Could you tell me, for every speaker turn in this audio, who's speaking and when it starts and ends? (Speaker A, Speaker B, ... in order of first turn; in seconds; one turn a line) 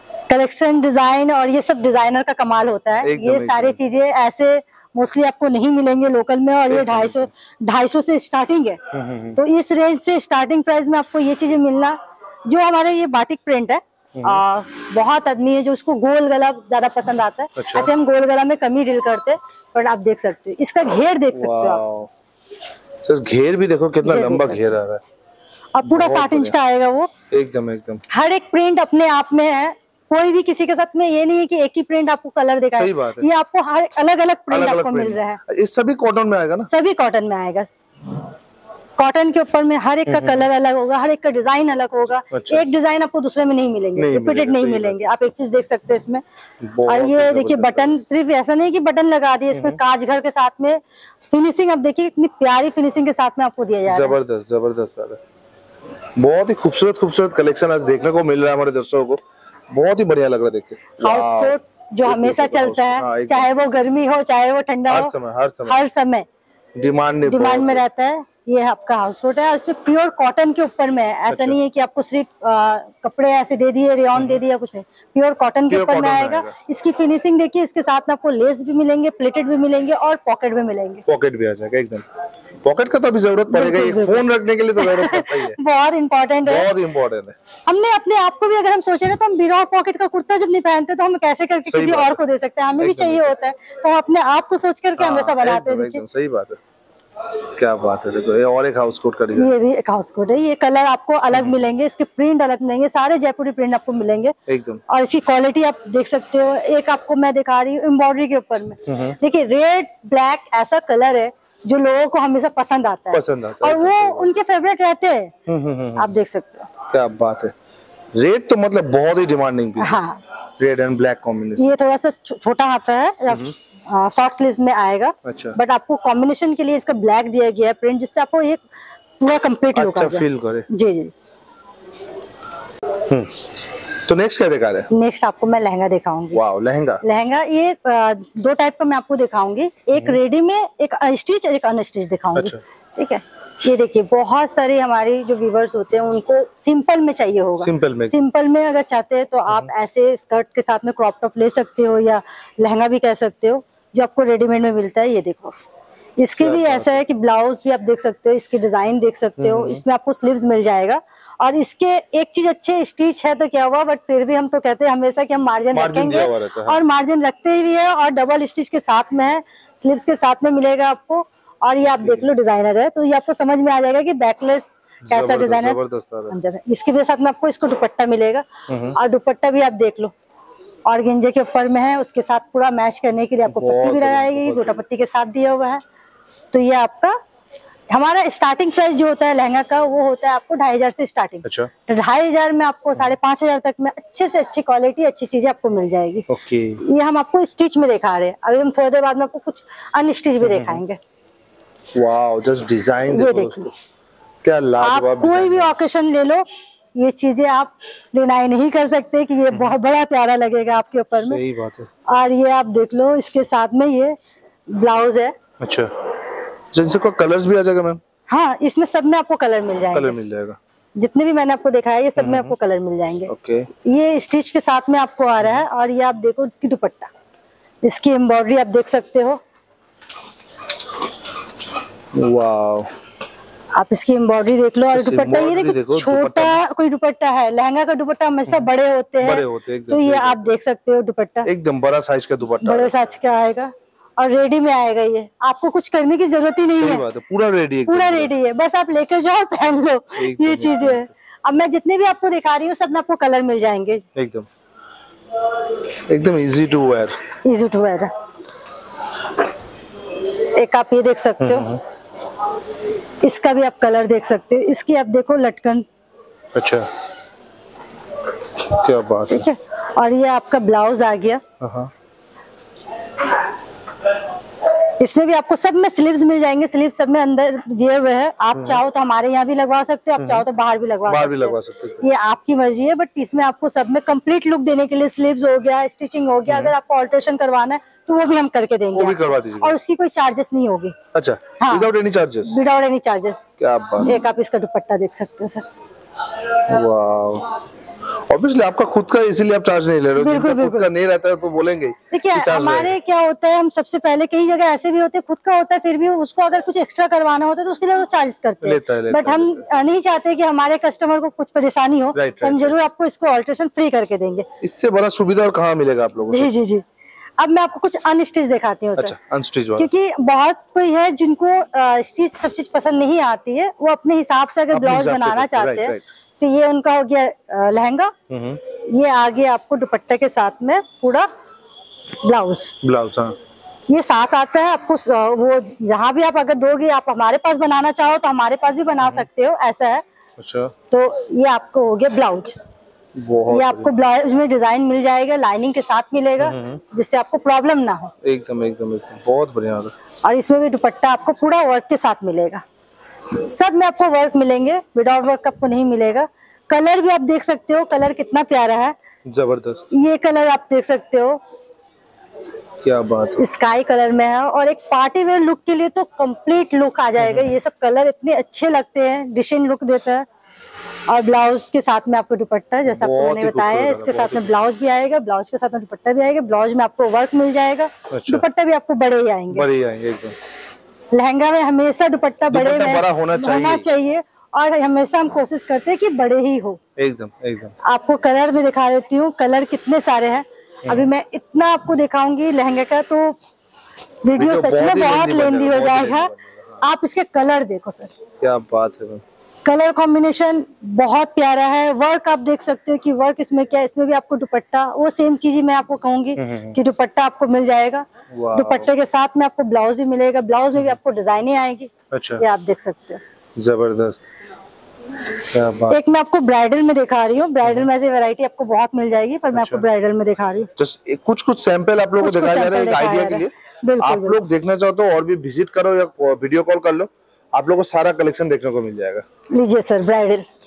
Speaker A: 0.3-8.8
Speaker B: 3.0-3.8
Speaker B: 6.7-7.3
Speaker B: 8.9-9.4
Speaker A: 9.3-21.8
Speaker B: 14.2-14.4
Speaker B: 17.6-17.9
Speaker B: 21.3-22.1
Speaker B: 23.0-25.0
Speaker A: 24.0-24.6
Speaker A: 25.7-27.1
Speaker B: 25.9-26.5
Speaker B: 27.3-28.0
Speaker A: 28.1-35.4
Speaker B: 32.8-33.3
Speaker B: 34.5-36.7
Speaker A: 36.7-37.7
Speaker A: 39.0-46.2
Speaker B: 40.1-40.5
Speaker B: 42.3-42.6
Speaker B: 44.0-45.1
Speaker B: 46.6-47.9
Speaker A: 46.9-50.8
Speaker B: 49.5-49.8
Speaker A: 51.3-54.2
Speaker B: 53.9-55.2
Speaker B: 56.2-63.6
Speaker A: 61.0-65.1
Speaker B: 64.9-65.8
Speaker A: 65.7-66.2
Speaker B: 66.8-67.8
Speaker A: 67.3-81.0
Speaker B: 71.3-71.6
Speaker B: 74.1-74.4
Speaker B: 75.7-76.5
Speaker B: 81.1-82.0
Speaker B: 82.6-85.6
Speaker A: 83.5-84.2
Speaker A: 84.8-86.7
Speaker B: 86.4-87.3
Speaker A: 87.7-96.0
Speaker B: 91.7-92.2
Speaker B: 92.8-93.3
Speaker B: 95.0-96.6
Speaker B: 97.5-99.5
Speaker A: 99.3-104.3
Speaker B: 104.5-104.8
Speaker A: 104.9-115.3
Speaker B: 108.9-109.2
Speaker B: 113.1-114.3
Speaker B: 115.5-116.1
Speaker A: 116.0-116.7
Speaker B: 116.9-117.5
Speaker B: 118.1-120.0
Speaker A: 119.8-120.2
Speaker B: 120.6-121.7
Speaker A: 121.6-128.6
Speaker B: 125.2-125.5
Speaker A: 129.2-131.1
Speaker B: 129.7-130.7
Speaker B: 133.1-133.4
Speaker B: 134.0-134.9
Speaker A: 134.9-136.4
Speaker B: 136.3-137.0
Speaker A: 137.0-155.6
Speaker B: 142.3-142.6
Speaker B: 147.6-148.2
Speaker A: 156.2-175.8
Speaker B: 156.4-157.0
Speaker B: 159.4-159.8
Speaker B: 165.7-166.8
Speaker B: 171.8-172.3
Speaker B: 175.1-176.3
Speaker A: 176.3-180.1
Speaker B: 178.7-179.0
Speaker A: 180.8-185.8
Speaker B: 183.5-184.8
Speaker A: 186.5-187.2
Speaker A: 187.9-196.3
Speaker B: 191.4-191.7
Speaker B: 196.3-196.8
Speaker A: 196.8-201.0
Speaker B: 200.4-200.8
Speaker B: 201.9-203.7
Speaker A: 203.1-203.7
Speaker B: 204.4-205.7
Speaker A: 204.8-206.4
Speaker A: 206.9-211.4
Speaker B: 209.5-209.8
Speaker B: 211.2-211.9
Speaker A: 212.1-214.2
Speaker A: 214.7-215.4
Speaker B: 215.6-215.9
Speaker B: 216.7-218.0
Speaker A: 218.3-220.2
Speaker B: 219.9-220.6
Speaker A: 221.0-223.3
Speaker B: 222.2-222.5
Speaker B: 223.3-223.7
Speaker A: 223.8-227.1
Speaker A: 227.8-229.4
Speaker B: 232.1-232.9
Speaker A: 233.7-241.5
Speaker B: 234.9-236.6
Speaker B: 239.2-240.5
Speaker B: 241.4-243.0
Speaker A: 242.6-247.0
Speaker B: 246.8-248.3
Speaker A: 247.9-254.0
Speaker B: 250.2-251.1
Speaker B: 254.1-254.5
Speaker B: 256.1-257.2
Speaker A: 257.4-258.1
Speaker A: 260.5-261.7
Speaker B: 261.4-261.8
Speaker A: 263.2-265.9
Speaker B: 266.5-266.9
Speaker B: 268.7-269.5
Speaker A: 269.3-271.4
Speaker B: 271.6-271.9
Speaker A: 275.0-291.0
Speaker B: 278.5-278.8
Speaker B: 280.2-280.4
Speaker B: 281.0-282.1
Speaker B: 286.5-286.7
Speaker B: 288.9-289.8
Speaker B: 291.1-292.6
Speaker A: 291.6-291.9
Speaker A: 292.4-293.4
Speaker B: 293.6-294.2
Speaker A: 294.0-295.7
Speaker B: 296.6-297.5
Speaker B: 298.2-302.9
Speaker A: 300.2-300.9
Speaker A: 302.1-314.4
Speaker B: 308.6-309.6
Speaker B: 312.1-312.8
Speaker B: 314.6-316.5
Speaker A: 316.3-316.8
Speaker A: 317.4-319.1
Speaker B: 319.0-319.9
Speaker A: 319.8-328.1
Speaker B: 324.7-326.0
Speaker B: 328.3-328.6
Speaker A: 328.8-331.3
Speaker A: 332.2-332.7
Speaker B: 332.8-333.4
Speaker A: 333.9-340.0
Speaker B: 339.0-339.3
Speaker B: 340.4-340.7
Speaker A: 340.9-342.6
Speaker B: 343.1-343.9
Speaker A: 343.5-348.1
Speaker B: 346.4-346.8
Speaker B: 348.2-349.9
Speaker A: 350.2-352.6
Speaker A: 353.4-359.0
Speaker B: 359.2-359.9
Speaker A: 359.9-361.4
Speaker B: 362.8-363.4
Speaker A: 363.4-370.2
Speaker B: 367.2-367.5
Speaker A: 371.1-379.7
Speaker B: 372.9-374.5
Speaker B: 378.1-378.4
Speaker B: 379.5-380.4
Speaker A: 381.1-386.8
Speaker B: 382.5-383.9
Speaker B: 387.0-387.8
Speaker A: 387.8-393.4
Speaker A: 394.2-398.1
Speaker B: 394.4-396.8
Speaker B: 398.4-399.2
Speaker A: 399.6-413.2
Speaker B: 406.4-406.8
Speaker B: 408.3-408.9
Speaker B: 412.1-412.4
Speaker B: 413.6-414.3
Speaker B: 415.4-416.0
Speaker A: 415.9-420.7
Speaker B: 419.5-419.8
Speaker B: 420.8-429.2
Speaker A: 422.2-424.4
Speaker A: 429.5-430.4